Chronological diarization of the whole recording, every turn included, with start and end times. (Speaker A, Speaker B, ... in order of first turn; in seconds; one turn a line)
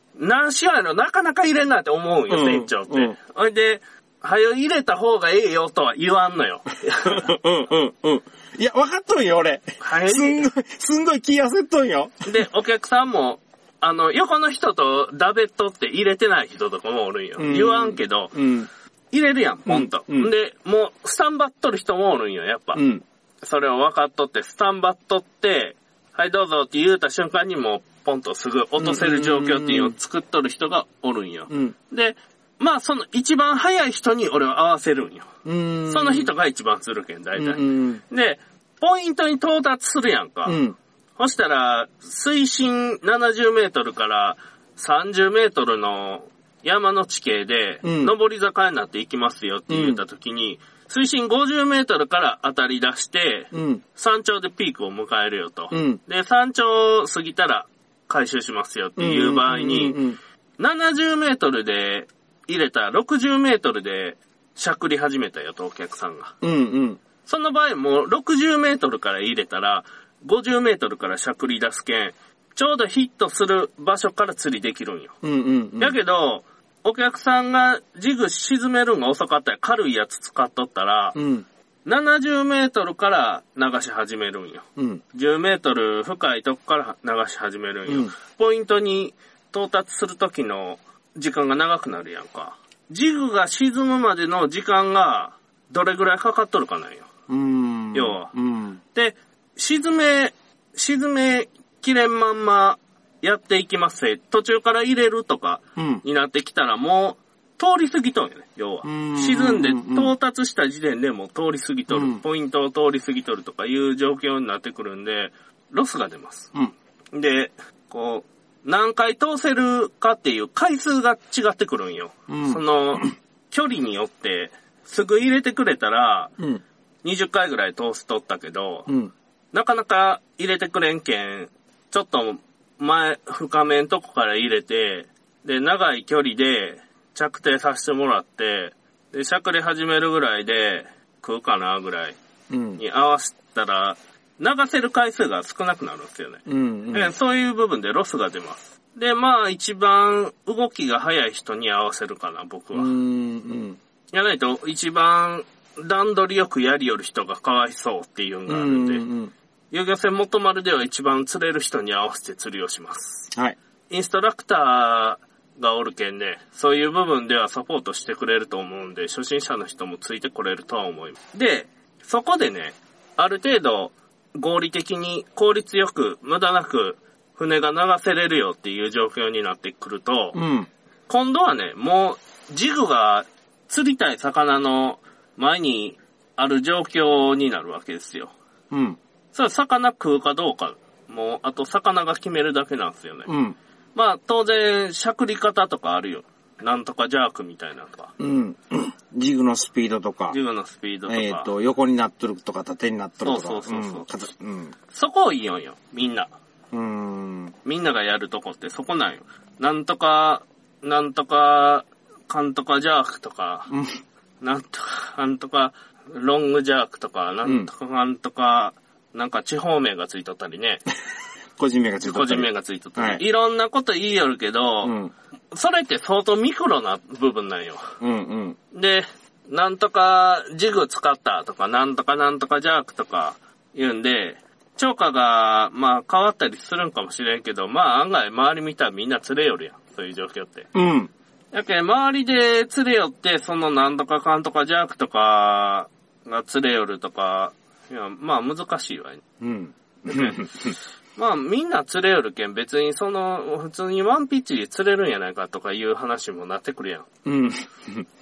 Speaker A: 0.1-7.3
Speaker B: 2.3-3.1
Speaker B: 7.0-12.3
Speaker A: 9.8-10.4
Speaker A: 12.2-18.4
Speaker B: 17.4-18.7
Speaker A: 19.1-22.8
Speaker B: 19.7-20.3
Speaker B: 22.7-23.0
Speaker A: 23.4-35.3
Speaker B: 28.8-29.9
Speaker B: 31.5-31.7
Speaker B: 35.4-36.3
Speaker A: 35.9-40.6
Speaker B: 37.4-38.0
Speaker B: 40.5-40.8
Speaker A: 41.2-60.0
Speaker B: 47.8-48.1
Speaker B: 49.7-50.0
Speaker B: 53.5-53.8
Speaker B: 55.7-56.0
Speaker B: 59.0-60.2
Speaker A: 60.6-66.3
Speaker B: 66.4-67.0
Speaker A: 67.2-75.1
Speaker B: 75.2-76.0
Speaker A: 75.8-81.2
Speaker B: 81.1-81.5
Speaker A: 81.8-97.1
Speaker B: 84.8-85.0
Speaker B: 87.9-88.1
Speaker B: 97.3-98.8
Speaker A: 97.9-98.3
Speaker A: 98.9-116.5
Speaker B: 105.8-106.0
Speaker B: 108.8-110.1
Speaker B: 111.9-112.2
Speaker A: 117.1-126.3
Speaker B: 122.3-123.0
Speaker A: 127.0-128.9
Speaker B: 128.9-129.1
Speaker A: 129.5-142.2
Speaker B: 142.5-142.8
Speaker A: 142.8-152.9
Speaker B: 146.5-147.1
Speaker B: 152.7-153.8
Speaker A: 154.1-159.0
Speaker B: 158.5-159.3
Speaker A: 159.7-163.3
Speaker A: 163.9-180.4
Speaker B: 180.3-180.7
Speaker A: 181.1-188.3
Speaker B: 188.7-189.0
Speaker A: 189.3-193.3
Speaker B: 193.3-193.6
Speaker A: 193.9-198.1
Speaker B: 198.2-200.4
Speaker A: 200.3-201.5
Speaker B: 201.1-204.7
Speaker A: 203.2-204.1
Speaker A: 204.9-206.3
Speaker B: 206.7-207.5
Speaker A: 207.6-213.7
Speaker A: 214.4-220.8
Speaker B: 217.4-217.7
Speaker B: 221.6-223.2
Speaker A: 222.0-224.9
Speaker B: 224.8-225.1
Speaker A: 225.5-227.9
Speaker B: 228.0-228.6
Speaker A: 228.7-240.7
Speaker B: 240.7-241.1
Speaker A: 241.5-249.2
Speaker B: 249.4-250.7
Speaker A: 250.1-257.1
Speaker B: 257.2-258.1